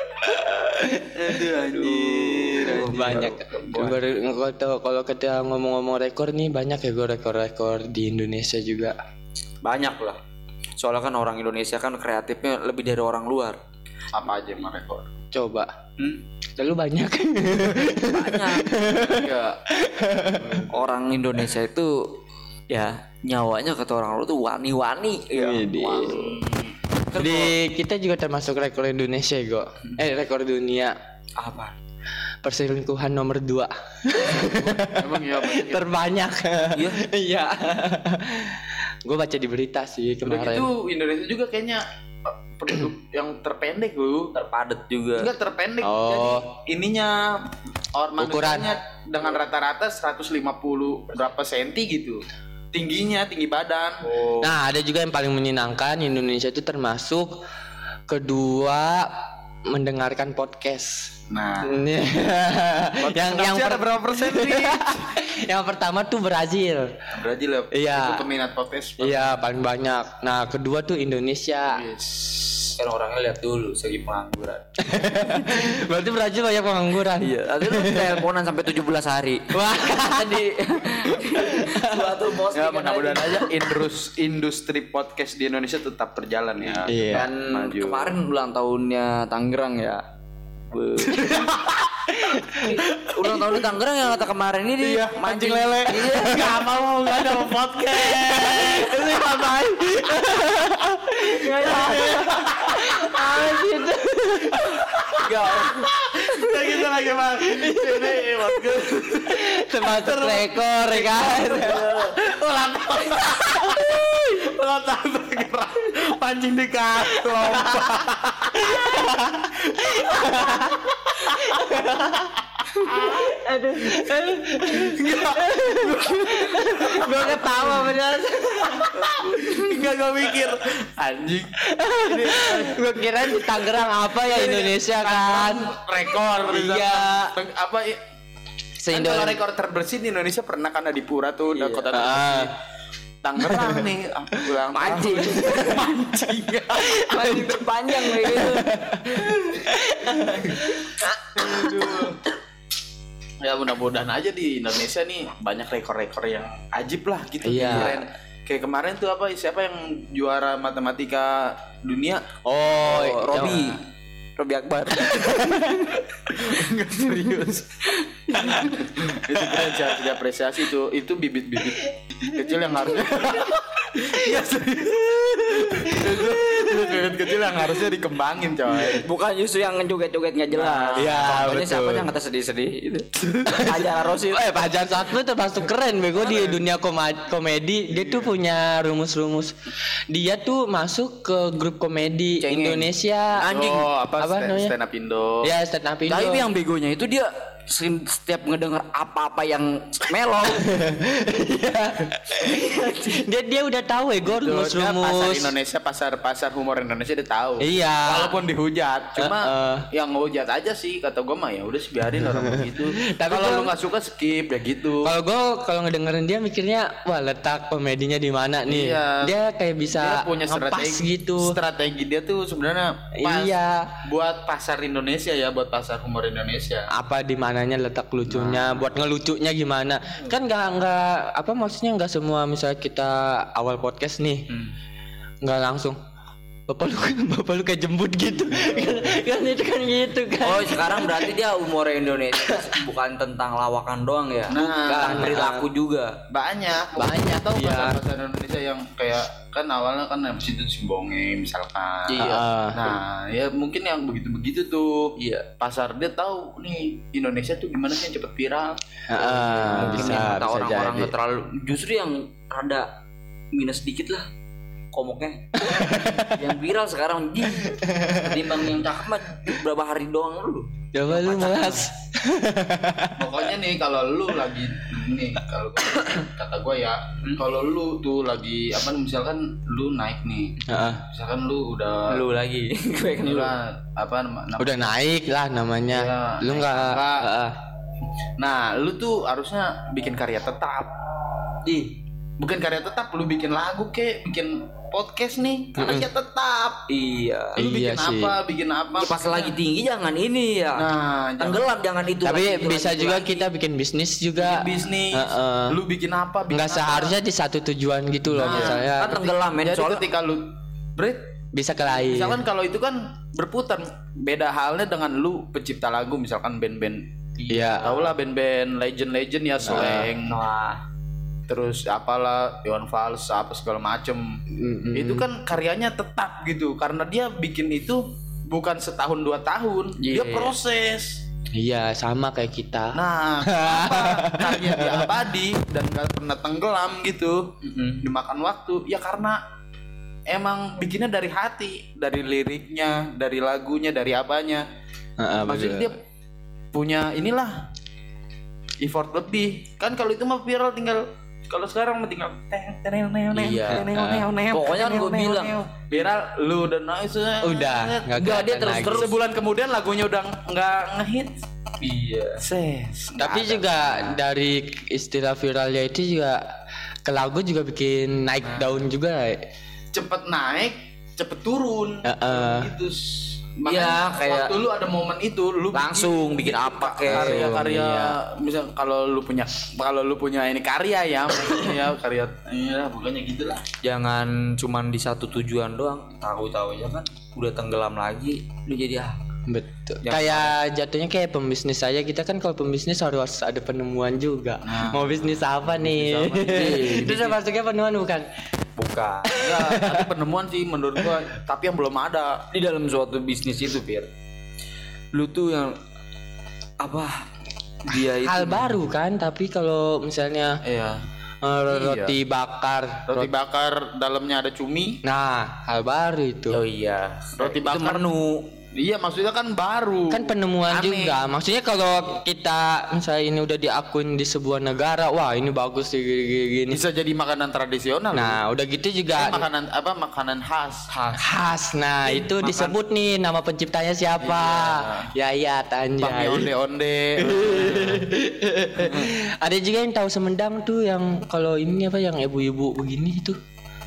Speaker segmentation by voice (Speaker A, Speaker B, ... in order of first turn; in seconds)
Speaker A: 0.3-1.2, 2.7-8.9, 15.3-15.7, 16.6-20.7, 25.3-26.4, 27.1-30.9, 32.4-40.7, 45.8-46.5, 48.2-48.7, 54.4-57.4, 58.1-66.9, 67.7-68.2, 69.0-71.8, 74.8-78.2, 79.5-80.5, 81.4-82.2, 86.9-87.3, 92.1-92.8, 96.3-105.2, 107.5-111.9, 113.2-114.2, 117.2-129.1, 131.6-137.3, 138.8-139.4, 141.9-142.5, 143.4-143.9, 146.8-151.8, 157.4-158.0, 162.4-163.8, 165.0-165.9, 172.9-174.1, 175.5-177.2, 180.9-182.1, 183.4-189.5, 190.1-193.6, 194.2-194.7, 195.4-196.5, 200.5-205.5, 207.6-208.4, 209.2-209.9, 212.2-213.7, 215.0-221.6, 223.2-223.9, 226.9-234.5, 235.4-236.0, 236.7-241.3, 244.8-245.7, 247.0-248.0, 252.2-252.9, 259.1-261.1, 265.6-266.4, 267.6-268.5, 270.9-273.3, 280.7-281.0, 284.6-287.6, 295.8-296.1, 297.6-298.3, 302.2-305.8, 306.5-309.2, 311.5-312.4, 317.5-317.9, 319.6-320.1, 324.5-325.2, 331.5-335.1, 345.2-345.9, 353.7-354.2, 357.4-359.1, 363.2-366.4, 367.0-369.4, 372.0-372.7, 377.1-378.1, 389.5-398.3, 399.4-400.1, 408.2-410.6, 411.4-413.3, 415.0-416.6, 420.1-426.8, 428.1-429.4, 431.2-436.5, 437.2-443.4
Speaker B: 1.1-3.4, 14.1-15.1, 18.9-19.6, 20.4-20.7, 25.7-26.8, 34.2-35.9, 40.2-44.3, 45.2-52.2, 52.7-54.5, 61.3-61.8, 63.0-65.1, 67.1-69.3, 71.7-72.8, 82.5-88.2, 91.0-92.1, 92.9-93.5, 94.8-100.2, 101.1-103.4, 104.5-121.9, 122.6-123.3, 124.6-127.7, 128.9-138.0, 138.9-142.5, 143.2-147.3, 150.2-150.7, 151.3-152.2, 153.4-162.2, 166.3-179.1, 180.5-181.3, 186.2-186.6, 187.9-188.3, 192.4-192.9, 193.4-195.5, 204.2-215.1, 218.7-219.3, 219.9-226.9, 228.3-228.9, 244.5-245.3, 246.3-260.4, 273.2-282.2, 283.2-284.8, 285.9-287.3, 288.4-290.9, 292.4-296.8, 297.6-299.5, 300.8-301.6, 304.4-307.1, 308.3-311.2, 311.9-317.1, 317.8-320.4, 321.5-324.4, 324.9-331.2, 332.9-339.4, 340.3-344.6, 345.4-346.0, 346.7-347.6, 348.8-358.2, 358.8-361.3, 362.4-364.2, 369.9-383.6, 394.6-397.4, 399.3-402.4, 410.6-411.0, 411.7-412.1, 413.1-415.0, 417.4-418.0, 418.7-421.1, 426.7-428.4, 429.1-430.9, 434.2-435.1, 436.0-438.1, 438.8-439.1
Speaker C: 1.4-4.0, 9.6-10.2, 10.8-13.6, 18.1-18.7, 20.7-22.1, 22.7-25.7, 27.1-27.5, 31.4-31.7, 36.7-37.0, 44.3-45.3, 72.8-74.8, 77.2-83.6, 87.1-90.0, 90.7-91.5, 92.6-96.6, 105.1-105.9, 111.2-112.2, 128.9-129.7, 141.5-141.9, 144.7-145.9, 146.9-149.4, 162.8-163.8, 164.4-165.8, 168.1-168.9, 178.8-184.5, 193.4-193.9, 196.1-200.7, 202.4-203.2, 240.4-246.2, 252.1-252.4, 255.2-255.5, 259.6-262.9, 263.5-264.2, 264.9-271.9, 282.1-283.5, 291.6-291.9, 296.9-297.6, 299.0-303.5, 308.4-310.0, 317.4-318.1, 319.7-320.8, 330.0-330.5, 337.6-338.0, 353.3-353.9, 354.5-355.6, 358.1-359.1, 361.8-362.4, 373.6-374.6, 375.7-377.5, 383.8-389.2, 390.0-390.5, 398.8-399.4, 402.5-404.1, 405.1-405.8, 406.8-407.2, 407.8-408.8, 416.5-418.4, 430.9-431.2, 432.0-432.8